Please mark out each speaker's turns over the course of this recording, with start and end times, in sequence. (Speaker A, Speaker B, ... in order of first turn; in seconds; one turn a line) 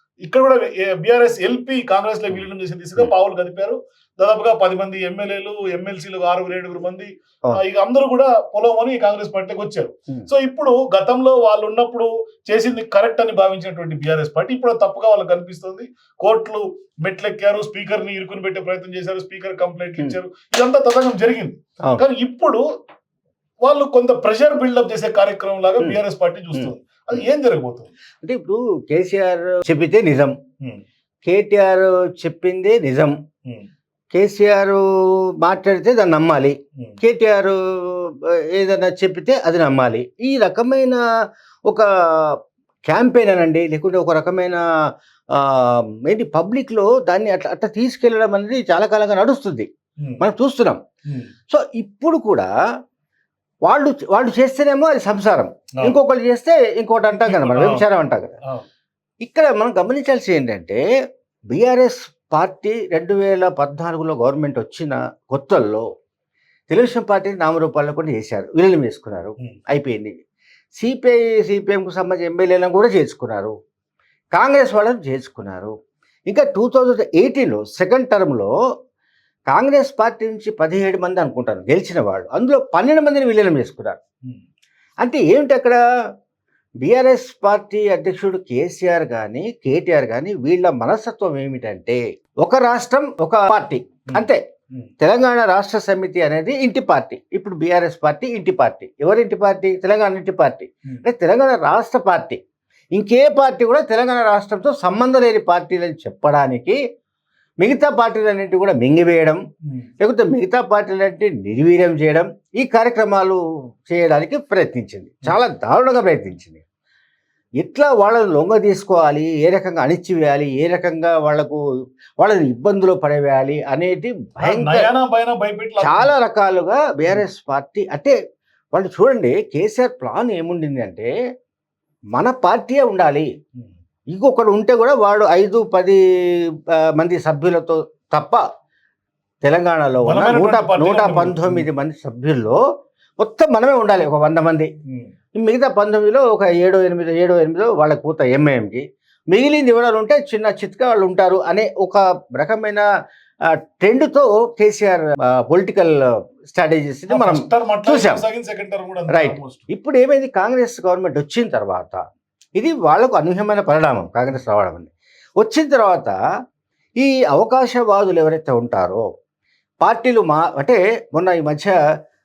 Speaker A: 0.2-22.6
Speaker A: 23.6-27.9
Speaker B: 26.5-27.2
Speaker B: 28.2-30.4
Speaker B: 31.2-33.1
Speaker B: 34.1-34.8
Speaker B: 35.4-41.0
Speaker B: 41.7-44.6
Speaker B: 45.3-49.7
Speaker A: 50.0-50.2
Speaker B: 50.2-50.8
Speaker A: 51.0-51.3
Speaker B: 51.5-52.5
Speaker B: 53.6-58.4
Speaker A: 57.1-57.8
Speaker B: 59.2-60.8
Speaker B: 61.5-65.8
Speaker B: 66.7-70.1
Speaker B: 70.8-73.5
Speaker B: 74.3-75.7
Speaker B: 76.3-78.5
Speaker B: 79.5-84.0
Speaker B: 85.0-85.8
Speaker B: 86.8-94.4
Speaker A: 94.1-94.9
Speaker B: 95.0-102.4
Speaker B: 102.9-106.8
Speaker B: 107.6-109.4
Speaker B: 110.0-116.6
Speaker B: 117.6-121.6
Speaker B: 122.2-124.9
Speaker A: 124.4-126.1
Speaker B: 125.8-128.2
Speaker B: 128.7-131.1
Speaker B: 132.1-133.3
Speaker B: 134.1-136.0
Speaker B: 136.9-138.4
Speaker B: 139.4-142.6
Speaker A: 140.0-141.6
Speaker B: 143.2-144.7
Speaker A: 144.9-145.1
Speaker B: 145.3-152.8
Speaker B: 153.5-158.2
Speaker A: 157.1-159.7
Speaker B: 159.1-162.0
Speaker B: 162.6-166.1
Speaker B: 167.0-169.0
Speaker B: 169.8-171.8